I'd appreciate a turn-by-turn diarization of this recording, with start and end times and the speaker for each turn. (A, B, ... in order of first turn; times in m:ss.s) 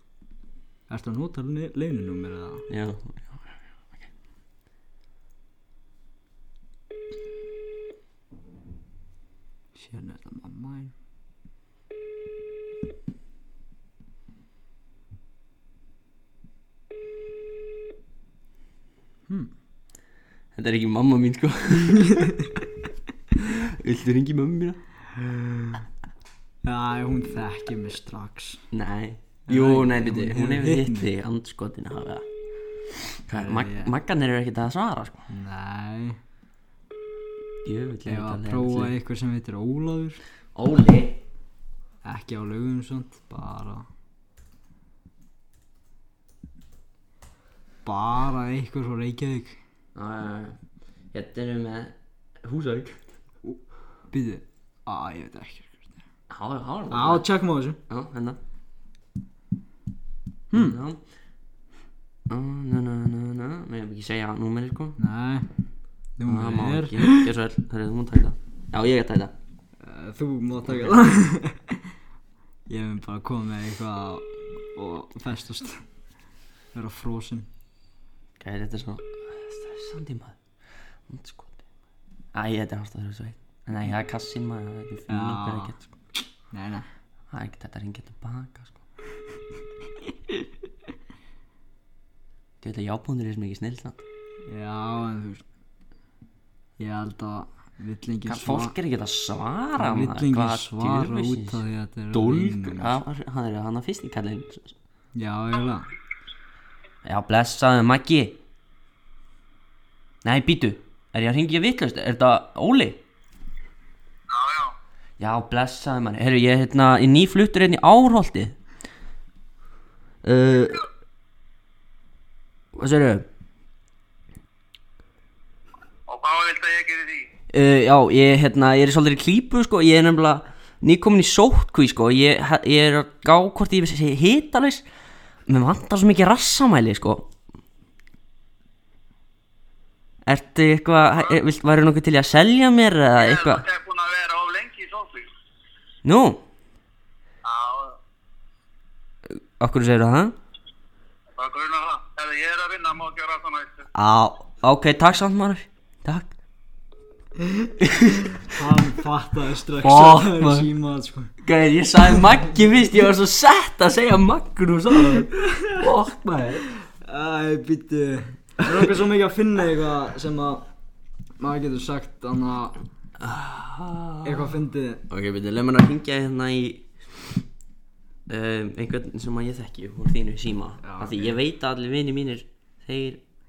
0:00.9-0:02.6 A
0:02.7-0:04.1 B
0:09.8-0:10.9 A
0:20.6-0:22.5 B
0:23.3-0:24.8 B
0:25.2-0:25.8 A
0:26.6-0:28.6 A
0:28.7-0:32.3 B
0:29.5-0:31.1 A
0:32.9-0:35.3 B
0:33.3-0:33.9 A
0:35.3-0:36.2 A
0:37.6-0:38.9 B
0:38.1-0:40.2 A
0:40.6-0:41.2 B
0:42.0-0:43.9 A
0:47.8-0:49.6 A
0:50.0-0:50.6 B
0:51.1-0:53.1 B
0:54.1-0:55.9 A
0:56.3-0:57.3 B
0:56.9-0:57.8 A
0:57.9-0:58.4 B
1:00.5-1:00.8 A
1:00.5-1:01.0 B
1:02.3-1:05.0 B
1:05.0-1:05.5 A
1:06.2-1:07.3 A
1:06.3-1:09.3 B
1:09.8-1:11.8 A
1:10.7-1:11.0 B
1:12.7-1:15.9 A
1:16.7-1:17.5 A
1:18.4-1:20.4 B
1:21.1-1:21.6 B
1:22.3-1:25.9 B
1:25.1-1:25.7 A
1:26.5-1:26.9 A
1:27.3-1:28.8 B
1:32.6-1:34.0 B
1:34.5-1:35.4 A
1:36.8-1:38.7 A
1:38.3-1:44.8 B
1:39.8-1:43.0 A
1:45.2-1:45.9 A
1:47.0-1:48.4 B
1:50.2-1:53.0 B
1:54.3-1:54.7 C
1:55.2-1:58.6 B
2:00.2-2:00.8 B
2:02.7-2:03.3 B
2:06.1-2:07.3 C
2:07.5-2:14.9 B
2:15.5-2:17.3 B
2:20.2-2:23.7 B
2:23.2-2:25.3 C
2:26.0-2:26.4 B
2:27.4-2:28.0 C
2:29.3-2:30.4 B
2:31.4-2:33.8 C
2:34.0-2:36.3 B
2:37.8-2:38.3 B
2:38.4-2:41.3 A
2:39.8-2:40.7 B
2:41.4-2:46.6 B
2:46.9-2:50.6 A
2:51.4-2:52.8 A
2:53.2-2:54.5 B
2:54.2-2:55.0 A
2:55.1-2:57.3 B
2:58.3-3:03.2 B
3:00.8-3:01.4 A